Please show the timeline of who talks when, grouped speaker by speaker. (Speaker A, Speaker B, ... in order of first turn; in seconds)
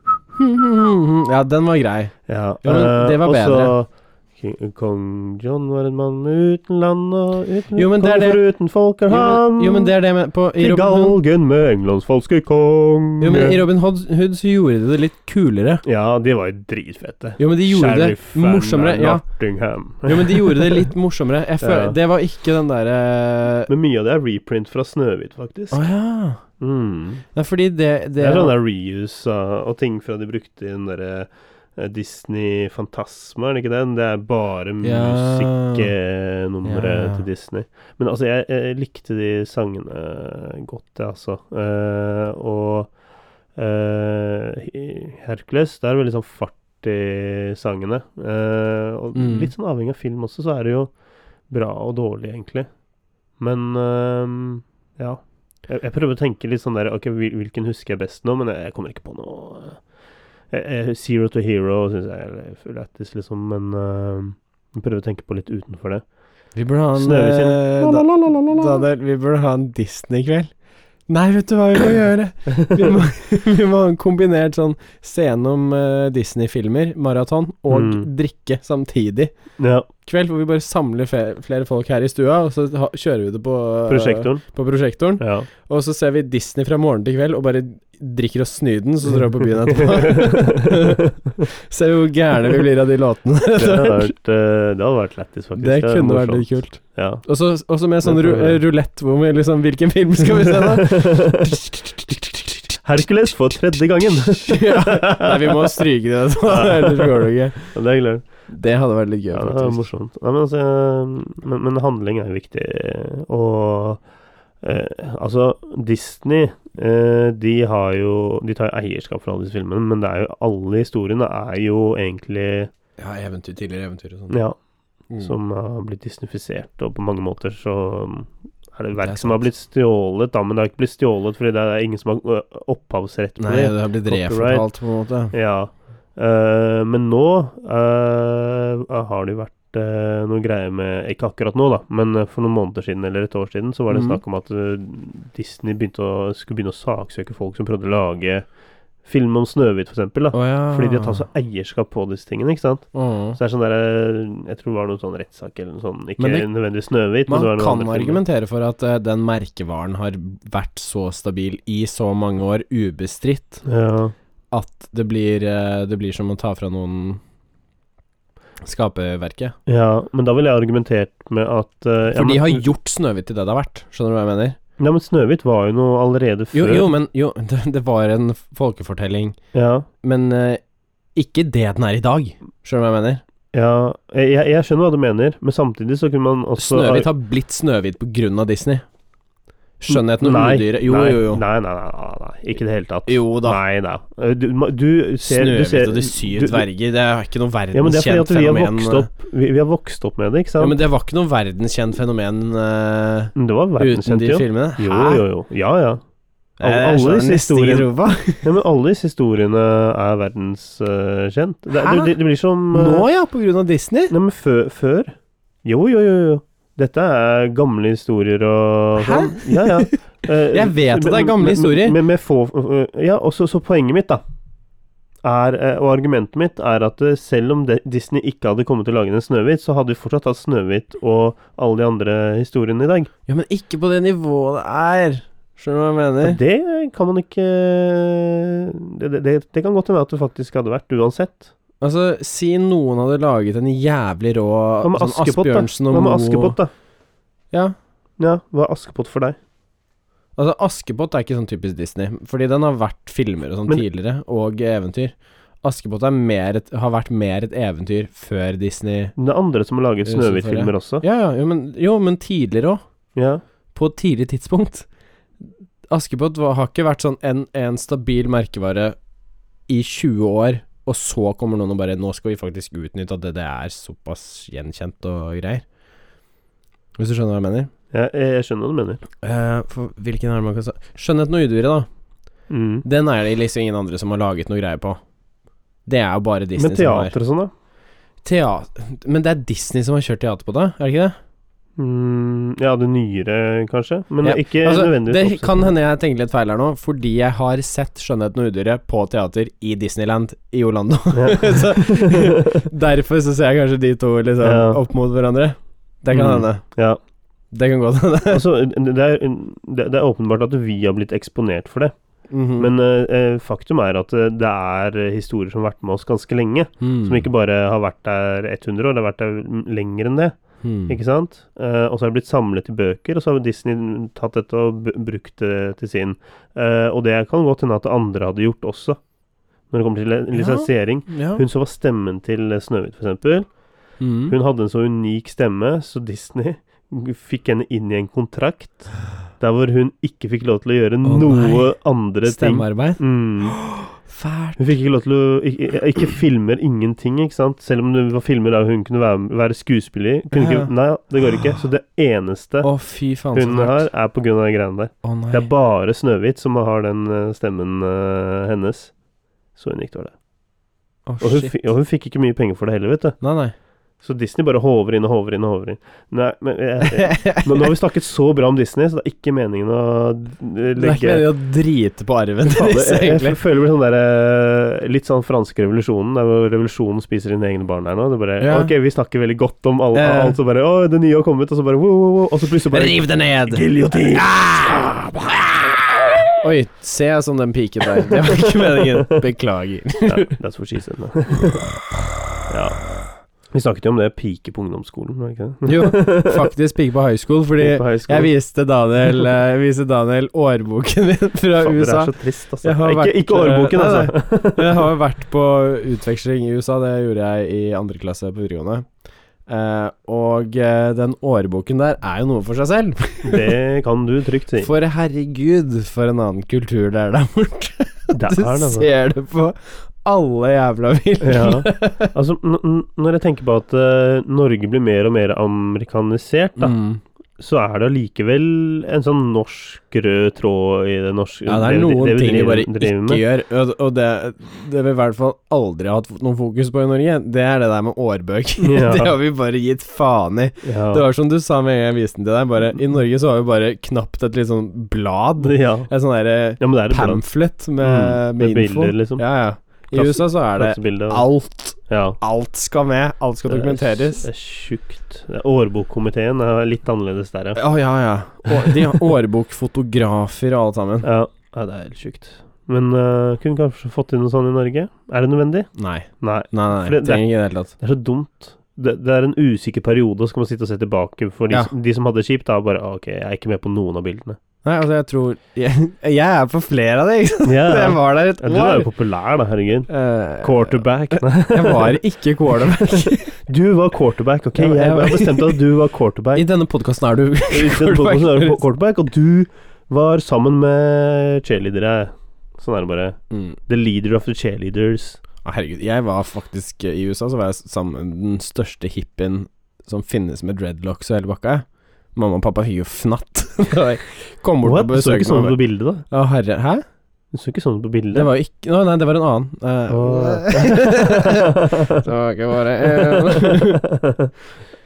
Speaker A: 0.3-3.7, 7.7-8.4, 9.1-11.2, 13.2-15.8, 17.4-19.2, 20.0-23.7, 25.7-26.4, 27.3-28.5, 34.8-35.9, 36.6-37.2, 49.1-49.5, 66.5-70.5, 71.1-79.3, 80.0-94.1, 95.6-102.8, 104.0-107.8, 108.5-109.8, 123.0-124.4, 129.0-129.4, 133.4-135.3, 143.9-144.2, 150.3-151.2, 152.9-153.4, 156.2-156.5, 157.3-163.6, 164.5-167.2, 168.6-169.5, 172.1-174.6, 176.5-179.4, 180.0-180.6, 181.1-183.2, 186.6-188.8, 189.8-191.4, 193.1-193.6, 195.2-199.1, 200.6-205.2, 206.6-208.6, 211.8-212.1, 212.7-214.1, 219.0-220.0, 220.5-222.0, 233.3-236.4, 241.8-246.6, 250.3-259.1, 260.0-262.8, 263.7-264.9, 265.9-268.9, 269.7-275.6, 277.0-277.7, 279.2-281.9, 282.8-285.0, 285.9-287.1, 288.2-291.1, 294.2-306.6, 307.5-308.4, 312.3-312.7, 316.8-317.2, 320.6-321.0, 330.3-331.4, 334.0-334.4, 341.0-341.7, 342.2-344.8, 350.3-350.7, 351.2-351.6, 352.6-353.9, 355.0-355.5, 361.1-361.5, 363.2-363.5, 366.9-367.7, 370.8-373.4, 378.4-378.7, 379.9-380.4, 382.7-384.9, 386.4-390.3, 395.6-408.9, 409.5-413.5, 414.6-422.1, 426.6-427.0, 431.5-454.3, 457.6-461.1, 465.8-467.7, 474.6-478.9, 479.9-483.4, 484.6-485.6, 486.3-488.6, 493.3-493.6, 495.4-505.6, 506.1-506.8, 508.1-513.8
Speaker B: 2.3-9.9, 10.6-13.6, 15.8-20.9, 21.6-21.9, 23.7-25.8, 26.6-27.2, 28.2-42.9, 43.5-50.9, 51.5-52.7, 53.4-59.8, 60.5-66.0, 67.0-68.8, 72.5-72.9, 77.7-78.1, 79.6-79.9, 83.9-84.4, 85.2-85.5, 89.7-91.5, 93.5-97.2, 98.0-98.6, 100.4-101.6, 102.8-105.8, 106.4-108.5, 109.3-114.0, 114.6-122.7, 124.3-124.6, 125.2-134.7, 135.3-148.5, 149.0-158.2, 163.6-164.1, 169.7-172.7, 174.8-176.9, 179.5-179.9, 183.5-187.1, 189.9-196.7, 197.7-200.8, 203.3-206.0, 206.6-207.9, 208.4-213.1, 214.1-224.2, 225.2-233.1, 236.2-241.5, 244.8-246.7, 248.2-249.4, 259.2-261.0, 263.1-263.4, 277.9-279.0, 282.5-282.8, 286.6-287.5, 291.8-295.7, 301.1-302.7, 304.4-304.8, 306.1-307.0, 308.3-311.9, 312.6-329.0, 329.7-333.5, 334.3-343.6, 344.6-352.7, 353.3-358.9, 359.5-360.1, 361.2-363.2, 364.0-371.3, 372.5-385.4, 388.1-389.2, 390.1-391.7, 392.5-392.8, 393.5-396.5, 397.6-398.3, 401.6-404.9, 413.2-414.7, 418.1-418.9, 421.2-426.8, 427.4-433.2, 438.6-439.1, 440.6-441.0, 445.4-445.9, 446.6-447.2, 447.8-449.2, 449.9-451.2, 451.9-452.2, 453.5-457.6, 458.5-458.9, 461.0-465.7, 466.2-474.4, 477.4-486.5, 487.5-495.2, 504.6-506.0, 507.3-508.3, 509.9-512.0, 512.8-514.3